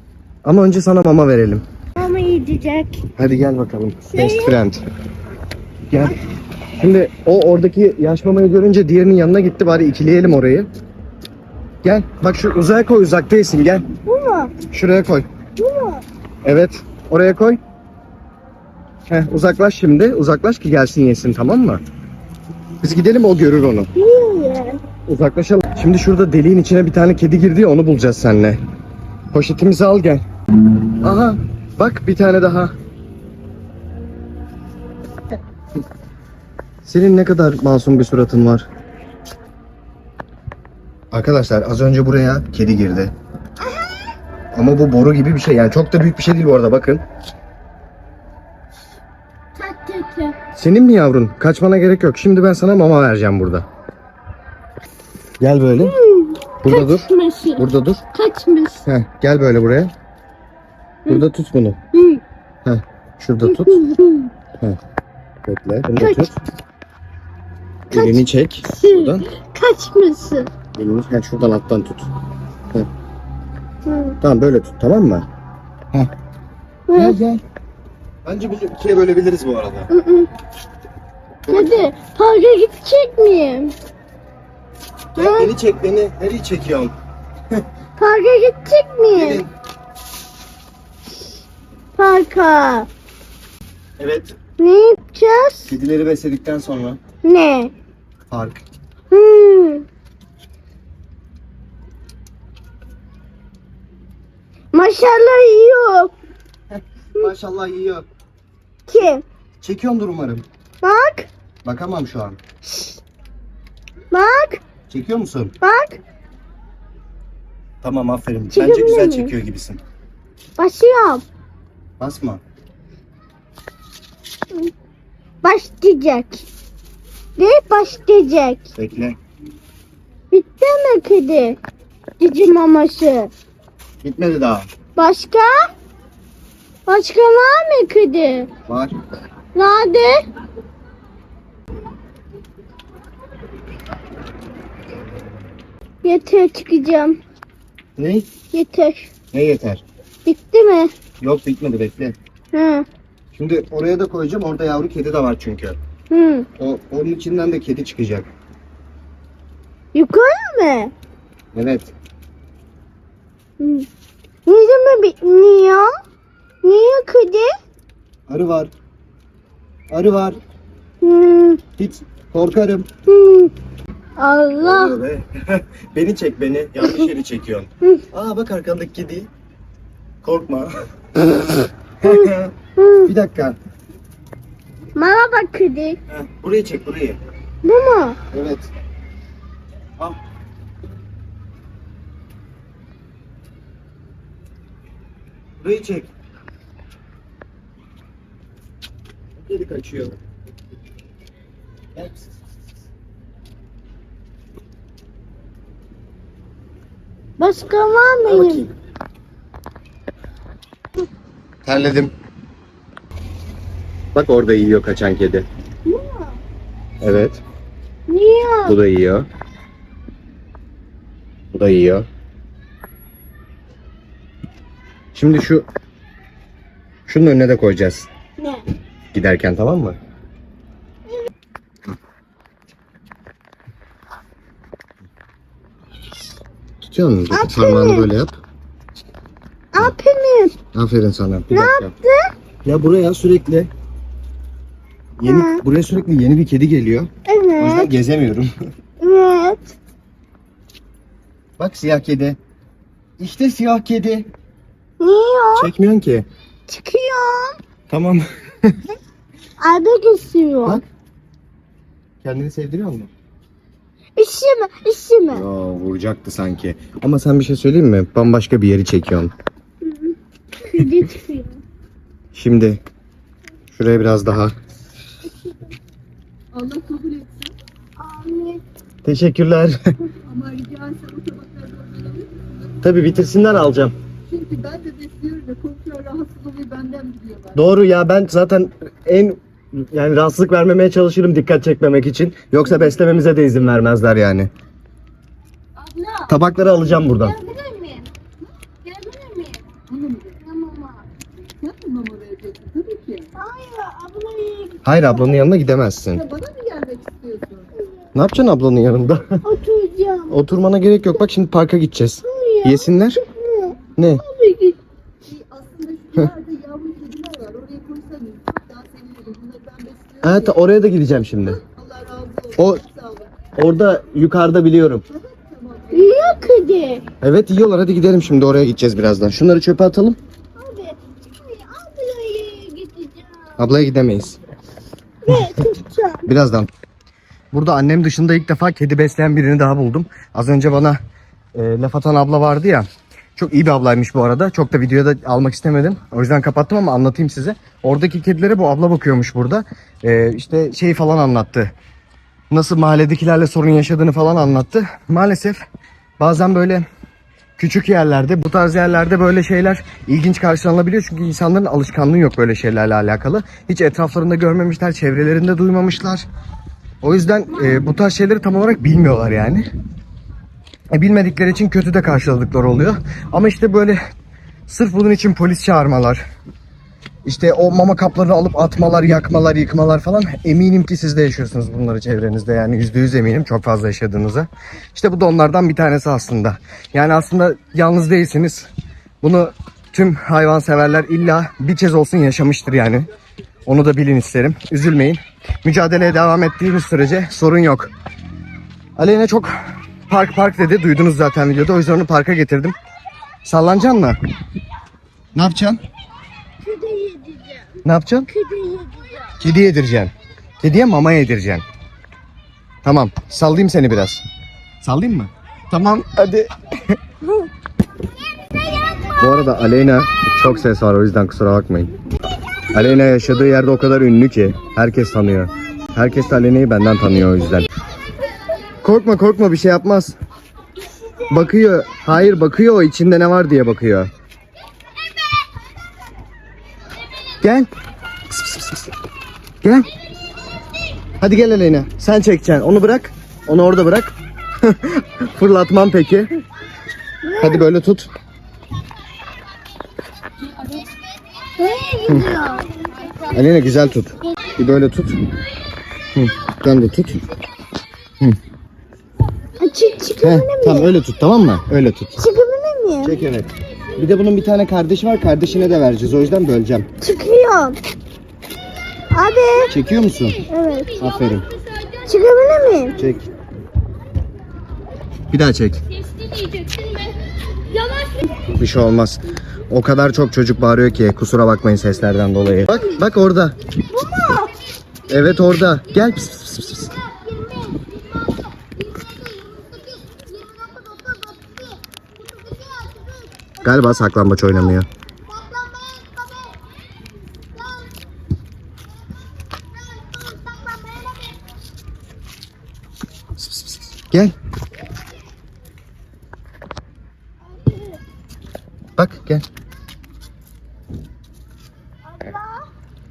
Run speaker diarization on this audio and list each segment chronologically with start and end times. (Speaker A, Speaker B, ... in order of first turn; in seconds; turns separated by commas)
Speaker A: 0.4-1.6, Speaker B: 2.0-3.0, Speaker A: 3.2-4.8, Speaker B: 4.1-4.6, Speaker A: 5.9-6.2, Speaker A: 6.8-10.7, Speaker A: 11.8-13.8, Speaker B: 14.0-14.6, Speaker A: 14.7-15.2, Speaker B: 15.6-16.0, Speaker A: 16.4-17.6, Speaker A: 19.1-21.8, Speaker A: 22.8-23.9, Speaker B: 23.9-24.8, Speaker A: 25.1-28.6, Speaker A: 29.3-30.2, Speaker A: 31.0-32.7, Speaker A: 36.8-38.6, Speaker A: 41.1-43.1, Speaker B: 43.6-43.9, Speaker A: 44.5-47.0, Speaker B: 49.6-50.4, Speaker A: 50.5-53.6, Speaker A: 55.4-55.9, Speaker B: 55.8-58.9, Speaker A: 56.6-58.0, Speaker A: 58.9-59.9, Speaker A: 61.1-61.8, Speaker B: 61.9-62.2, Speaker A: 62.6-63.8, Speaker B: 63.4-64.3, Speaker A: 65.5-66.3, Speaker B: 66.0-66.3, Speaker A: 67.9-69.2, Speaker B: 67.9-70.5, Speaker A: 70.7-72.1, Speaker B: 73.8-74.2, Speaker A: 74.2-75.2, Speaker B: 76.9-77.2, Speaker A: 77.0-77.4, Speaker A: 78.2-79.9, Speaker B: 79.9-80.3, Speaker B: 81.5-83.7, Speaker A: 85.1-86.9, Speaker B: 85.2-85.5, Speaker B: 88.0-89.4, Speaker A: 89.1-89.5, Speaker B: 92.0-92.9, Speaker A: 94.0-94.3, Speaker B: 94.6-95.7, Speaker A: 95.7-97.0, Speaker B: 97.2-97.7, Speaker A: 98.3-98.6, Speaker B: 99.1-99.8, Speaker B: 104.7-106.1, Speaker A: 106.7-108.0, Speaker B: 108.9-109.2, Speaker A: 109.6-110.5, Speaker B: 110.8-111.3, Speaker A: 111.6-112.4, Speaker B: 112.6-113.0, Speaker B: 114.1-114.6, Speaker A: 114.9-115.5, Speaker B: 115.6-116.0, Speaker A: 117.8-119.8, Speaker B: 118.5-119.3, Speaker B: 120.6-121.2, Speaker A: 122.0-122.4, Speaker B: 125.4-126.5, Speaker B: 127.4-128.6, Speaker A: 128.8-129.2, Speaker B: 130.3-131.6, Speaker B: 132.2-133.3, Speaker A: 134.0-134.7, Speaker B: 134.9-135.7, Speaker B: 136.9-138.5, Speaker A: 138.7-138.9, Speaker B: 139.5-140.2, Speaker B: 146.0-147.2, Speaker A: 147.9-148.3, Speaker B: 148.5-149.1, Speaker A: 149.3-149.8, Speaker B: 150.2-150.9, Speaker A: 151.2-152.2, Speaker B: 152.5-152.8, Speaker A: 153.3-155.8, Speaker B: 156.1-156.5, Speaker A: 156.6-158.3, Speaker B: 159.9-160.9, Speaker A: 161.5-161.9, Speaker B: 163.6-163.9, Speaker B: 164.4-165.9, Speaker B: 166.6-167.5, Speaker A: 168.3-168.7, Speaker A: 169.9-170.4, Speaker B: 171.0-171.6, Speaker A: 171.8-172.9, Speaker B: 173.1-173.5, Speaker B: 174.2-174.9, Speaker A: 174.6-179.3, Speaker B: 176.8-177.1, Speaker A: 180.2-182.5, Speaker B: 182.0-183.1, Speaker A: 183.1-183.6, Speaker B: 184.9-186.0, Speaker A: 186.1-187.2, Speaker B: 187.6-188.2, Speaker A: 188.3-188.7, Speaker A: 195.6-196.1, Speaker A: 199.4-200.2, Speaker A: 201.9-202.2, Speaker B: 207.4-208.7, Speaker A: 208.2-208.7, Speaker A: 211.6-212.1, Speaker A: 214.1-215.4, Speaker B: 215.8-216.4, Speaker A: 217.0-217.4, Speaker B: 218.1-218.8, Speaker A: 218.6-219.2, Speaker A: 221.5-222.0, Speaker A: 225.1-225.6, Speaker A: 227.1-228.1, Speaker A: 229.1-230.0, Speaker A: 236.8-238.3, Speaker B: 237.3-238.1, Speaker B: 239.7-240.6, Speaker A: 240.7-241.9, Speaker B: 241.5-242.3, Speaker A: 242.6-243.7, Speaker A: 245.2-247.1, Speaker B: 245.2-245.6, Speaker B: 247.2-247.9, Speaker A: 247.6-248.5, Speaker B: 249.0-249.8, Speaker A: 251.6-252.4, Speaker A: 253.2-254.3, Speaker B: 255.0-255.7, Speaker A: 255.5-256.3, Speaker B: 256.7-257.6, Speaker A: 257.9-258.7, Speaker B: 259.6-260.8, Speaker A: 262.2-263.1, Speaker B: 264.1-265.4, Speaker A: 265.3-269.3, Speaker B: 269.8-271.6, Speaker A: 272.3-272.8, Speaker A: 273.7-274.5, Speaker C: 276.5-277.5, Speaker B: 278.0-278.6, Speaker A: 279.0-279.8, Speaker C: 280.3-282.8, Speaker A: 282.8-283.9, Speaker C: 284.3-287.6, Speaker A: 287.5-294.5, Speaker A: 296.3-297.4, Speaker B: 297.2-298.1, Speaker B: 298.8-299.8, Speaker C: 299.9-300.3, Speaker B: 300.4-301.0, Speaker C: 301.6-303.3, Speaker B: 303.3-304.8, Speaker A: 304.8-306.2, Speaker C: 306.2-307.7, Speaker A: 308.1-309.2, Speaker B: 309.4-310.4, Speaker A: 310.3-313.2, Speaker B: 312.2-314.8, Speaker A: 314.0-314.2, Speaker C: 315.3-320.5, Speaker A: 320.2-321.6, Speaker C: 321.7-323.3, Speaker A: 322.5-322.8, Speaker A: 323.6-325.0, Speaker C: 325.1-326.0, Speaker B: 325.9-327.0, Speaker A: 327.2-330.2, Speaker B: 330.6-333.6, Speaker A: 333.6-334.4, Speaker B: 335.2-336.3, Speaker A: 336.2-336.7, Speaker A: 337.5-341.0, Speaker A: 341.5-342.9, Speaker A: 343.4-351.7, Speaker A: 352.5-355.6, Speaker A: 356.2-356.8, Speaker A: 357.6-366.2, Speaker A: 367.0-369.6, Speaker A: 370.9-374.0, Speaker A: 374.7-376.2, Speaker A: 377.2-388.7, Speaker A: 389.2-393.1, Speaker A: 393.6-397.9, Speaker A: 399.0-399.5, Speaker A: 400.1-402.7, Speaker A: 403.4-404.1, Speaker A: 405.3-405.8, Speaker B: 406.6-407.7, Speaker A: 407.8-408.3, Speaker B: 408.3-409.4, Speaker A: 409.4-411.6, Speaker A: 412.8-414.2, Speaker A: 414.8-417.0, Speaker B: 418.7-419.4, Speaker A: 419.2-421.9, Speaker A: 422.7-427.7, Speaker A: 428.8-430.1, Speaker A: 431.3-434.1, Speaker A: 437.4-437.7, Speaker A: 438.3-438.9, Speaker A: 439.6-439.9, Speaker A: 441.2-446.3, Speaker B: 447.2-447.7, Speaker A: 447.4-448.1, Speaker B: 451.6-452.7, Speaker A: 453.3-455.2, Speaker A: 456.1-457.2, Speaker B: 459.6-460.9, Speaker A: 460.2-462.1, Speaker B: 462.1-463.2, Speaker A: 463.0-466.9, Speaker B: 467.0-467.8, Speaker B: 469.1-469.7, Speaker A: 469.7-470.4, Speaker B: 470.5-471.1, Speaker A: 471.0-471.5, Speaker B: 472.0-473.0, Speaker A: 473.0-473.2, Speaker A: 475.3-475.8, Speaker B: 476.6-476.9, Speaker B: 477.7-478.2, Speaker A: 478.4-483.6, Speaker B: 483.9-484.5, Speaker A: 485.1-486.9, Speaker B: 486.9-493.3, Speaker A: 493.6-494.9, Speaker B: 495.3-496.6, Speaker B: 499.8-501.4, Speaker A: 503.4-504.3, Speaker B: 507.5-508.0, Speaker A: 508.9-509.4, Speaker B: 512.1-512.7